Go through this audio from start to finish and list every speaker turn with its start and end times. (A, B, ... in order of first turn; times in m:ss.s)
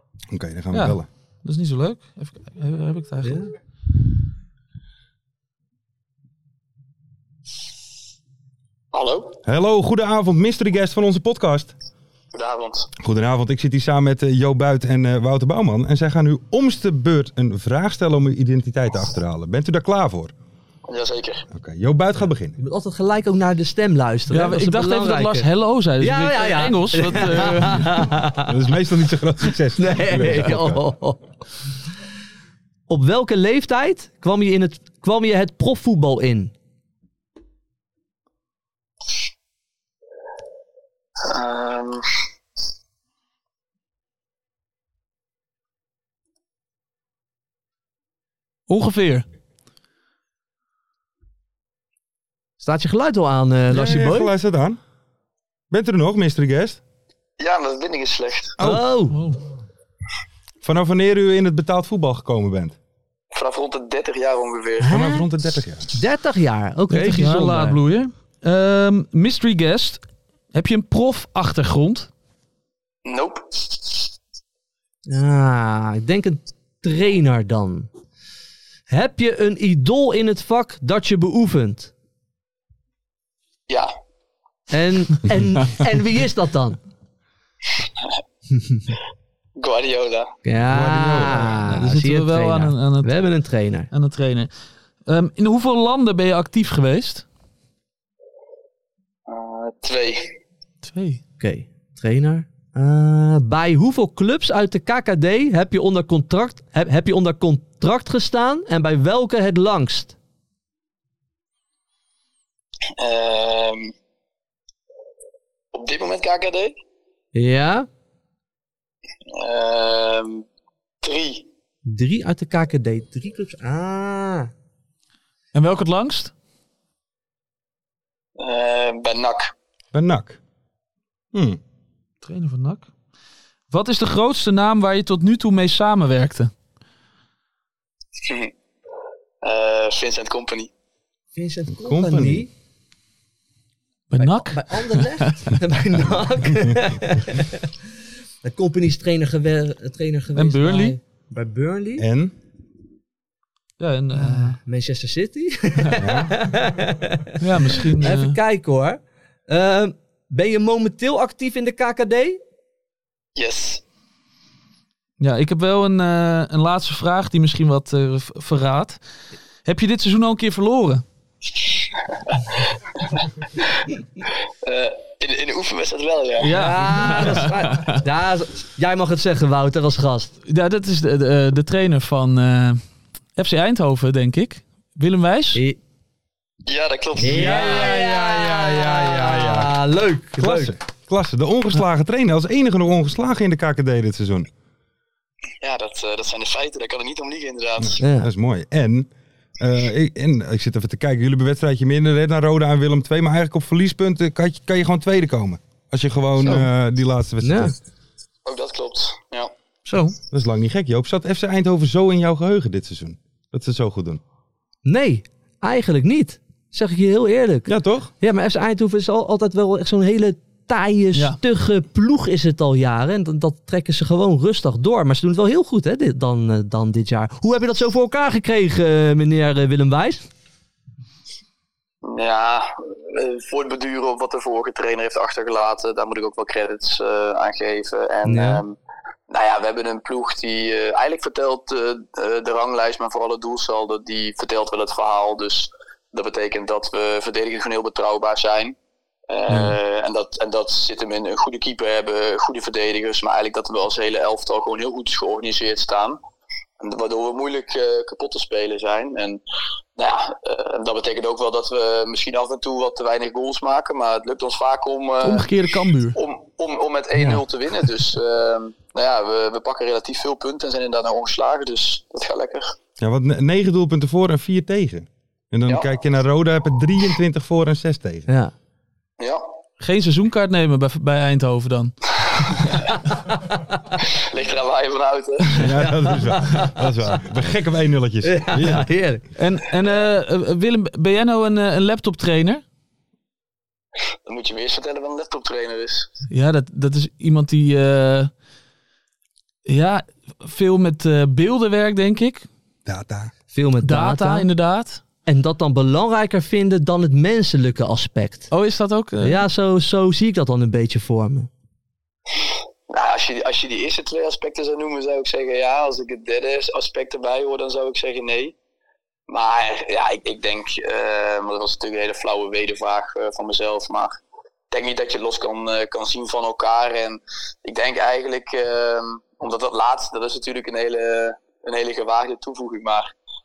0:00.3-0:01.1 A
0:00.7-0:03.4 B
0:03.2-0:03.5 C
0:08.9-0:09.4 D
0:09.4-0:11.7 A
0:12.3-0:12.9 D
0:13.0-0:20.3 A
0:20.9-0:21.4 D
0:21.5-0:22.6 A
0:22.6-0:25.5 C
0:24.3-0:28.0 B
0:26.0-0:28.5 C
0:28.4-0:30.8 A
0:29.8-0:31.2 C
0:32.9-0:36.5 C
0:41.2-0:42.0 D
0:48.7-0:49.2 B
0:52.6-0:54.3 C
0:53.7-0:54.8 A
0:55.7-0:56.8 A
0:57.4-0:58.6 D
0:58.6-0:59.2 C
0:59.1-0:59.4 B
1:00.6-1:02.8 A
1:03.3-1:04.9 D
1:04.8-1:05.3 C
1:04.8-1:05.9 A
1:05.9-1:07.8 C
1:06.9-1:10.0 B
1:10.5-1:12.1 B
1:13.0-1:13.7 D
1:15.1-1:17.9 C
1:18.9-1:21.9 C
1:24.7-1:26.8 C
1:29.6-1:30.3 D
1:30.4-1:33.9 C
1:30.7-1:31.7 A
1:31.6-1:33.3 B
1:33.9-1:34.5 B
1:35.1-1:37.2 B
1:39.3-1:40.3 D
1:40.8-1:41.2 B
1:41.4-1:50.2 C
1:53.0-1:53.9 D
1:55.7-1:56.8 D
1:57.4-1:57.9 C
1:59.3-2:00.5 D
2:01.0-2:01.5 D
2:01.9-2:04.5 C
2:05.5-2:06.3 B
2:08.4-2:09.5 D
2:09.9-2:10.4 A
2:11.3-2:11.6 A
2:12.2-2:12.9 B
2:13.7-2:16.5 B
2:18.2-2:18.5 D
2:19.4-2:20.7 D
2:21.4-2:22.5 C
2:21.8-2:22.5 A
2:24.1-2:25.5 B
2:24.2-2:27.6 C
2:28.4-2:32.0 C
2:30.4-2:31.0 B
2:32.0-2:32.3 A
2:33.8-2:34.6 B
2:34.2-2:42.4 C
2:36.0-2:36.4 A
2:37.4-2:38.4 B
2:43.4-2:43.8 D
2:45.2-2:49.0 B
2:49.7-2:51.0 B
2:54.6-2:56.5 D
2:56.4-2:58.0 B
2:56.5-3:00.3 C
3:00.5-3:02.8 B
3:03.4-3:05.6 B
3:06.6-3:07.9 D
3:07.2-3:10.7 C
3:07.2-3:09.8 A
3:10.4-3:14.5 A
3:15.6-3:18.0 D
3:18.0-3:27.8 A
3:18.0-3:18.3 C
3:27.4-3:27.7 C
3:28.4-3:29.5 D
3:29.9-3:30.1 B
3:30.3-3:34.2 A
3:34.9-3:50.3 C
3:37.7-3:38.1 A
3:52.0-3:58.8 D
3:58.2-3:58.6 C
3:59.3-4:08.8 D
4:09.3-4:16.2 D
4:16.8-4:19.4 D
4:20.0-4:25.5 D
4:25.2-4:26.2 B
4:26.2-4:32.8 D
4:33.0-4:38.3 A
4:39.2-4:39.4 D
4:39.8-4:42.0 B
4:42.6-4:42.9 D
4:44.0-4:45.7 D
4:45.6-4:48.9 A
4:45.8-4:46.7 C
4:48.2-4:49.2 C
4:49.4-4:52.6 B
4:54.3-4:56.1 D
4:56.3-4:58.3 B
4:59.7-5:02.5 B
5:02.9-5:03.3 A
5:03.5-5:04.5 C
5:03.8-5:05.0 B
5:05.3-5:08.5 C
5:08.5-5:09.4 B
5:09.2-5:11.5 C
5:12.9-5:18.6 D
5:19.3-5:24.2 D
5:24.7-5:33.1 D